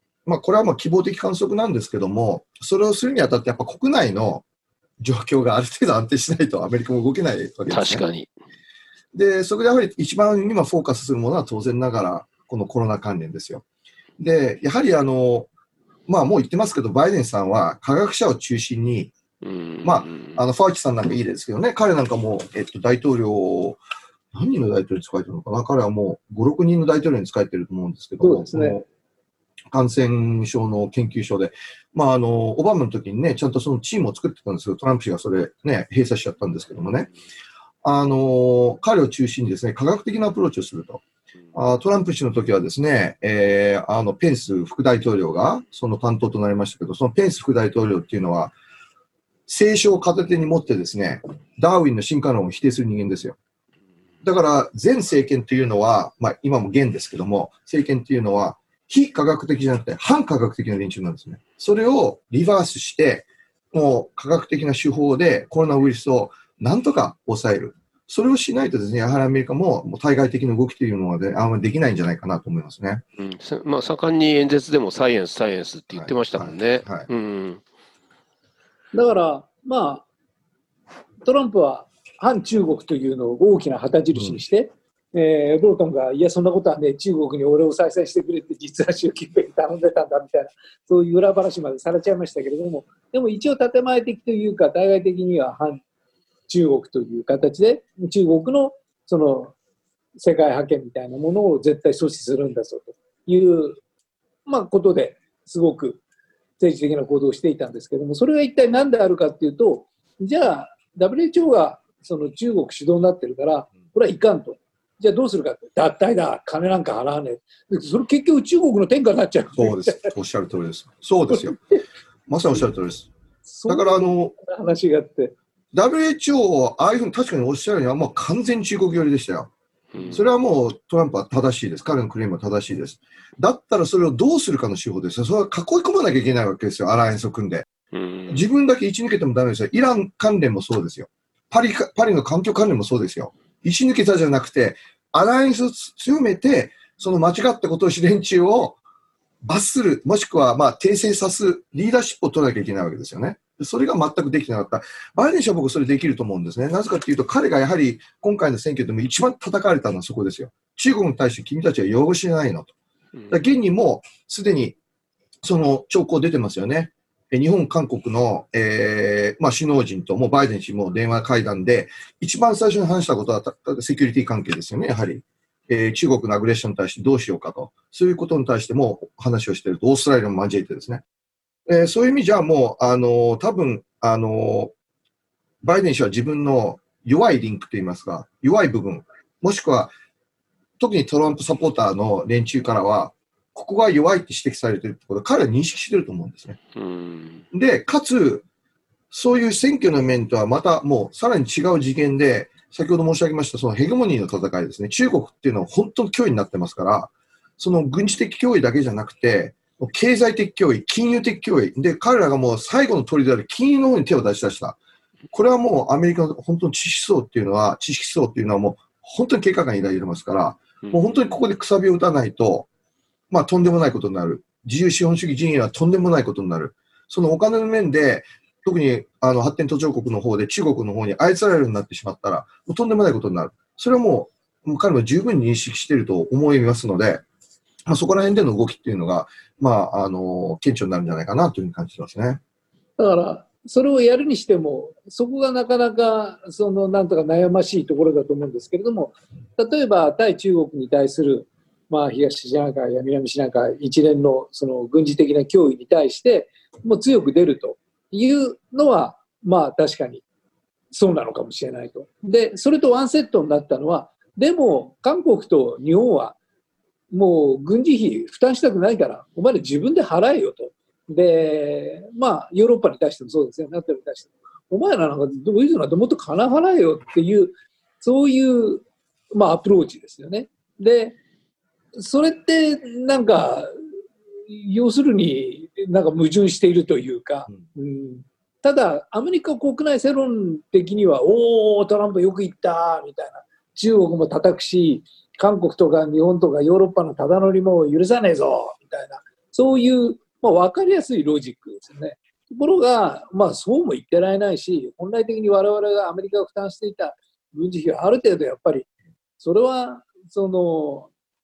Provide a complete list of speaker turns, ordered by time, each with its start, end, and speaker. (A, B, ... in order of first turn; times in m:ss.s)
0:00.2-0:04.4 A
0:05.0-0:08.0 A
0:07.7-0:08.3 B
0:09.1-0:13.6 A
0:14.2-0:15.5 A
0:16.1-0:19.1 A
0:19.4-0:20.4 B
0:19.8-0:23.8 A
0:24.3-0:28.8 A
0:28.2-0:28.8 C
0:29.7-0:37.1 A
0:37.8-0:41.0 A
0:41.5-0:48.5 A
0:49.5-0:53.4 A
0:54.2-1:13.0 A
1:13.2-1:17.6 B
1:15.9-1:17.1 A
1:18.9-1:20.0 C
1:21.2-1:35.8 C
1:24.1-1:24.4 A
1:36.5-1:39.5 C
1:40.2-1:43.8 C
1:44.5-1:46.0 C
1:46.6-2:00.1 C
1:59.6-2:01.6 A
2:01.3-2:01.8 C
2:02.3-2:03.1 A
2:03.5-2:05.3 C
2:03.7-2:04.3 A
2:05.7-2:09.5 A
2:09.9-2:10.2 B
2:10.1-2:17.7 A
2:17.9-2:18.4 B
2:18.3-2:28.8 A
2:29.4-2:42.7 A
2:43.3-2:44.8 A
2:45.4-3:01.0 A
3:01.7-3:04.7 A
3:05.6-3:09.9 A
3:10.8-3:16.6 A
3:16.7-3:17.4 B
3:17.5-3:18.4 A
3:19.1-3:34.8 A
3:35.3-3:42.7 A
3:40.8-3:41.2 B
3:43.3-3:57.2 A
3:57.9-4:02.4 A
4:03.0-4:20.2 C
4:20.9-4:26.4 C
4:27.1-4:41.2 C
4:42.0-4:43.7 C
4:44.5-5:08.9 C
5:09.4-5:11.1 C